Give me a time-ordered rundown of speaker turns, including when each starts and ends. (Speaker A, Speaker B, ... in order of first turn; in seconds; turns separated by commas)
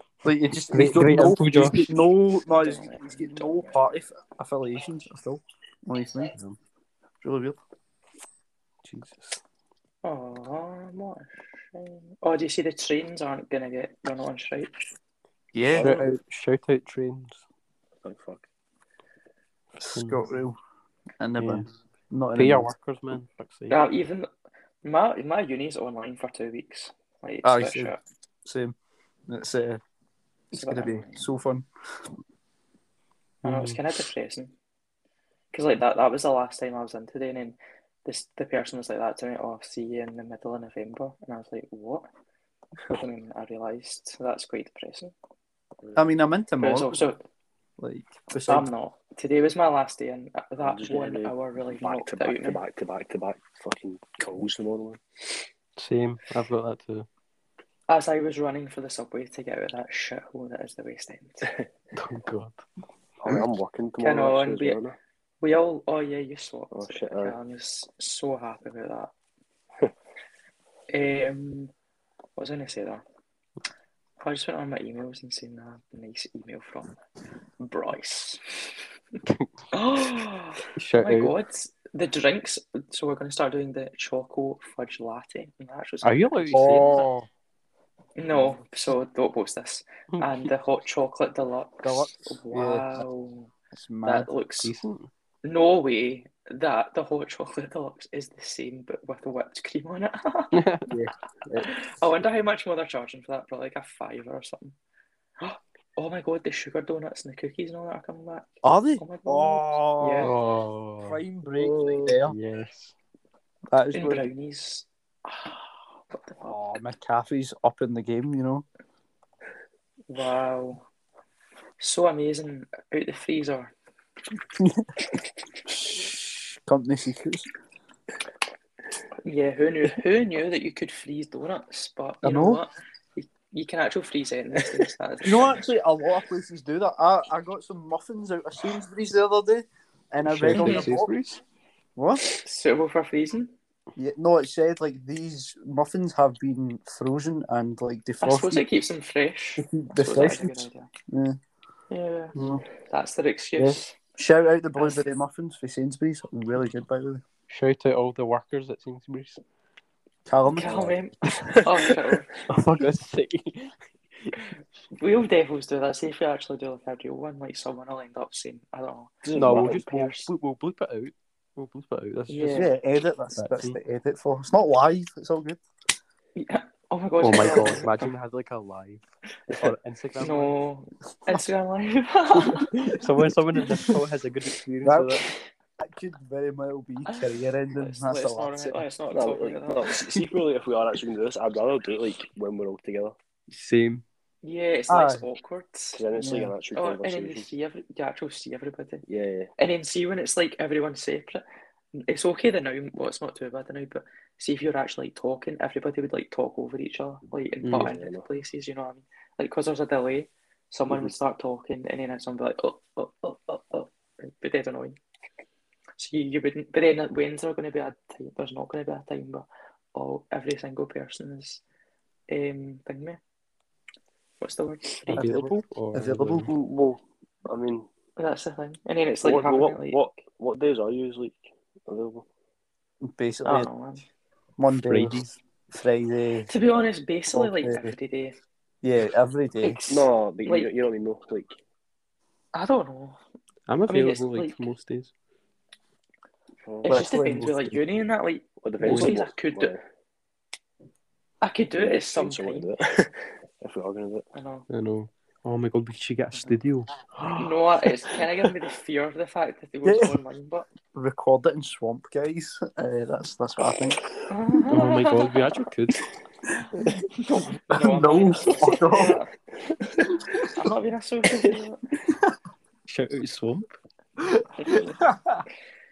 Speaker A: 0.2-6.3, Speaker B: 0.7-2.0, Speaker C: 2.5-3.8, Speaker A: 7.2-7.6, Speaker B: 8.8-9.4, Speaker C: 10.0-14.7, Speaker A: 15.5-16.0, Speaker D: 15.7-16.0, Speaker B: 15.8-17.4, Speaker D: 18.0-18.4, Speaker A: 19.8-20.6, Speaker B: 19.9-20.2, Speaker A: 21.2-22.7, Speaker B: 21.4-21.7, Speaker B: 22.4-23.8, Speaker C: 23.7-24.3, Speaker C: 24.8-28.0, Speaker A: 27.4-28.8, Speaker A: 29.3-29.8, Speaker A: 30.5-31.7, Speaker C: 30.5-31.3, Speaker B: 33.5-33.8, Speaker C: 33.5-34.5, Speaker C: 35.5-42.1, Speaker C: 42.9-45.1, Speaker A: 46.0-47.1, Speaker C: 46.6-47.2, Speaker A: 47.8-48.7, Speaker C: 48.5-52.6, Speaker D: 50.6-55.0, Speaker B: 55.8-57.1, Speaker C: 57.9-61.5, Speaker B: 61.9-62.6, Speaker D: 63.2-65.0, Speaker A: 63.3-63.6, Speaker C: 64.0-64.8, Speaker C: 65.4-69.1, Speaker D: 66.7-67.4, Speaker C: 70.9-71.7, Speaker C: 72.4-73.0, Speaker C: 74.2-76.9, Speaker C: 77.6-78.8, Speaker C: 79.7-87.0, Speaker B: 80.8-81.3, Speaker B: 86.0-86.9, Speaker A: 86.5-87.3, Speaker C: 88.2-93.5, Speaker B: 90.1-90.5, Speaker A: 91.8-93.0, Speaker A: 93.7-94.3, Speaker C: 94.0-94.7, Speaker B: 94.6-95.1, Speaker C: 95.4-100.6, Speaker B: 100.5-100.9, Speaker A: 100.9-101.7, Speaker C: 101.6-104.8, Speaker C: 105.4-110.3, Speaker A: 108.6-110.3, Speaker B: 110.2-113.0, Speaker A: 111.0-112.3, Speaker A: 113.7-114.3, Speaker C: 113.9-116.8, Speaker A: 116.4-118.7, Speaker C: 120.1-120.8, Speaker C: 121.8-123.7, Speaker A: 124.6-124.9, Speaker A: 125.7-127.5, Speaker C: 129.2-135.7, Speaker A: 132.2-132.6, Speaker A: 135.2-141.1, Speaker B: 140.2-141.4, Speaker C: 140.5-140.9, Speaker A: 142.0-142.2, Speaker C: 142.3-143.5, Speaker A: 144.0-148.7, Speaker C: 148.2-150.9, Speaker A: 149.6-151.4, Speaker C: 151.9-152.3, Speaker A: 152.4-152.6, Speaker C: 152.9-154.0, Speaker A: 153.6-157.2, Speaker C: 154.8-155.0, Speaker B: 157.5-159.4, Speaker A: 160.3-160.9, Speaker C: 160.5-162.3, Speaker D: 161.5-162.0, Speaker B: 162.5-164.4, Speaker C: 164.9-170.3, Speaker D: 169.2-169.8, Speaker B: 169.3-172.7, Speaker C: 172.3-172.7, Speaker A: 172.5-175.6, Speaker B: 173.3-173.8, Speaker C: 176.4-178.1, Speaker B: 177.2-180.6, Speaker C: 180.2-182.7, Speaker B: 182.9-185.2, Speaker A: 184.8-185.2, Speaker A: 185.8-188.8, Speaker C: 187.1-190.0, Speaker D: 189.1-193.2, Speaker B: 193.5-194.1, Speaker C: 194.4-196.0, Speaker A: 194.9-195.2, Speaker D: 195.9-197.5, Speaker A: 196.2-196.5, Speaker C: 196.7-199.1, Speaker D: 199.1-199.5, Speaker C: 199.6-215.0, Speaker B: 207.6-207.9, Speaker D: 207.7-208.3, Speaker C: 216.0-221.6, Speaker C: 222.3-223.2, Speaker C: 224.4-225.4, Speaker B: 225.1-226.5, Speaker A: 225.2-226.5, Speaker D: 226.5-227.9, Speaker C: 228.2-230.1, Speaker D: 229.2-232.3, Speaker A: 233.0-233.7, Speaker C: 233.4-234.0, Speaker A: 234.6-236.5, Speaker B: 234.9-235.2, Speaker C: 236.5-238.4, Speaker A: 237.3-237.9, Speaker A: 238.8-239.8, Speaker C: 239.6-240.7, Speaker D: 239.9-241.6, Speaker C: 242.5-243.2, Speaker B: 243.7-245.1, Speaker C: 243.9-244.6, Speaker D: 246.6-247.0, Speaker A: 246.8-247.8, Speaker C: 246.8-249.7, Speaker D: 248.6-249.8, Speaker B: 248.8-249.1, Speaker C: 251.4-252.7, Speaker D: 251.8-254.2, Speaker C: 254.3-254.7, Speaker B: 254.7-257.5, Speaker C: 257.4-260.7, Speaker A: 259.8-260.1, Speaker A: 260.9-264.0, Speaker C: 264.3-265.5, Speaker B: 264.7-266.0, Speaker C: 267.1-269.3, Speaker A: 267.7-269.2, Speaker C: 270.5-271.8, Speaker B: 272.9-273.7, Speaker C: 274.5-275.1, Speaker A: 275.1-275.4